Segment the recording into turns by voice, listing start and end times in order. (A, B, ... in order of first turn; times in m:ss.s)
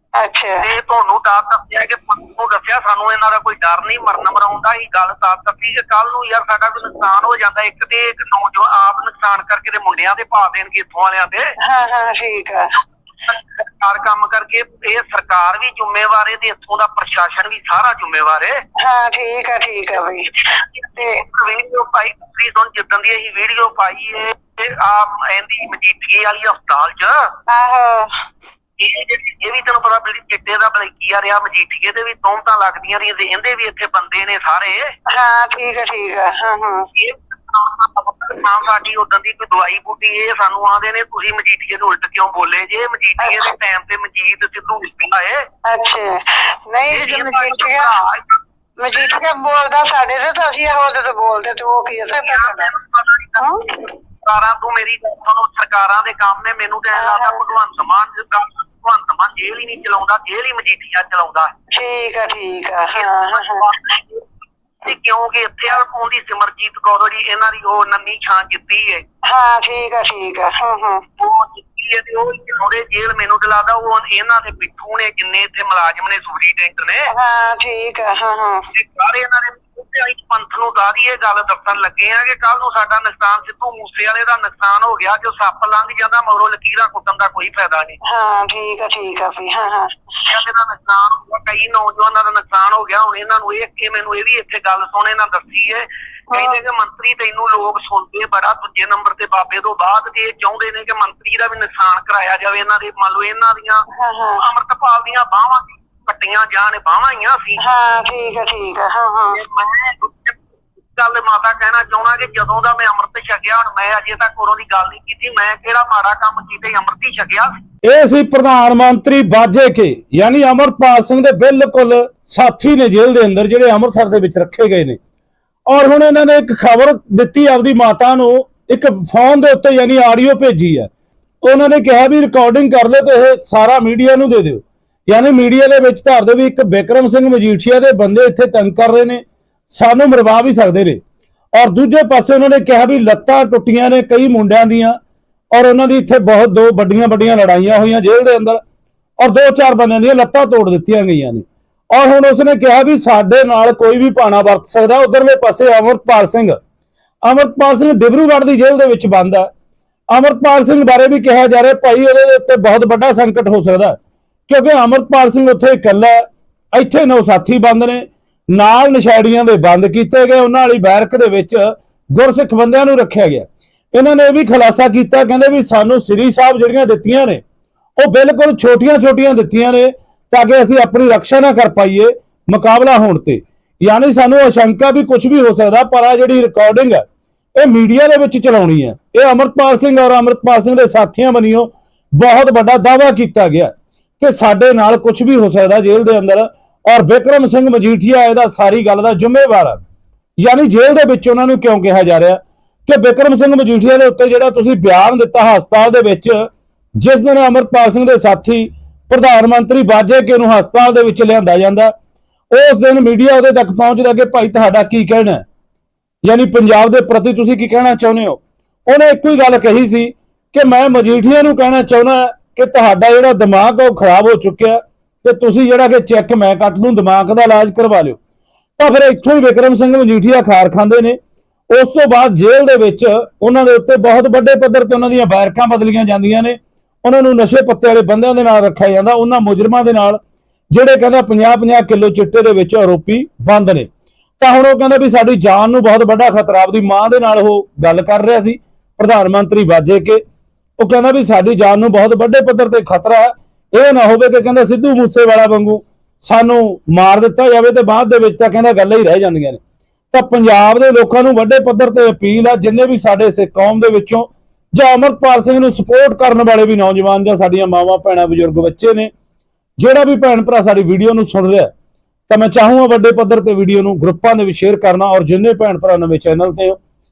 0:00.1-0:00.7 A
0:00.6-0:11.6 B
0:11.6-0:12.8 A
0:13.2-0:18.6 B
0:18.8-0:21.2 A
0:20.5-0:27.3 B
0:27.5-0:28.2 A
0:28.8-0:34.9 B
0:35.0-0:36.9 A
0:36.9-0:45.4 B
0:43.2-0:43.5 A
0:45.6-0:48.0 A
0:46.9-0:48.4 B
0:48.8-0:52.7 A
0:48.9-0:49.2 B
0:52.2-1:01.5 B
0:53.4-0:53.9 A
0:56.9-0:57.4 A
1:01.7-1:03.7 A
1:02.9-1:04.3 B
1:04.8-1:09.0 B
1:09.2-1:11.0 A
1:11.2-1:17.1 B
1:17.1-1:18.7 A
1:18.7-1:28.0 B
1:28.0-1:30.3 A
1:30.2-1:43.9 B
1:36.3-1:36.6 A
1:43.9-1:44.4 A
1:44.4-1:47.6 B
1:47.6-1:49.4 A
1:49.3-1:57.5 B
1:57.8-2:05.0 C
2:05.7-2:10.9 C
2:11.4-2:21.0 C
2:21.5-2:25.0 C
2:25.5-2:28.6 C
2:29.2-2:36.6 C
2:37.2-2:39.5 C
2:40.1-2:44.0 C
2:44.5-2:57.4 C
2:58.0-3:07.0 C
3:07.6-3:19.8 C
3:20.4-3:31.9 C
3:32.5-3:35.4 C
3:36.2-3:48.2 C
3:48.8-3:51.2 C
3:51.7-4:00.2 C
4:00.7-4:03.9 C
4:04.4-4:10.2 C
4:10.8-4:19.6 C
4:20.1-4:29.1 C
4:29.8-4:31.7 C
4:32.3-4:36.8 C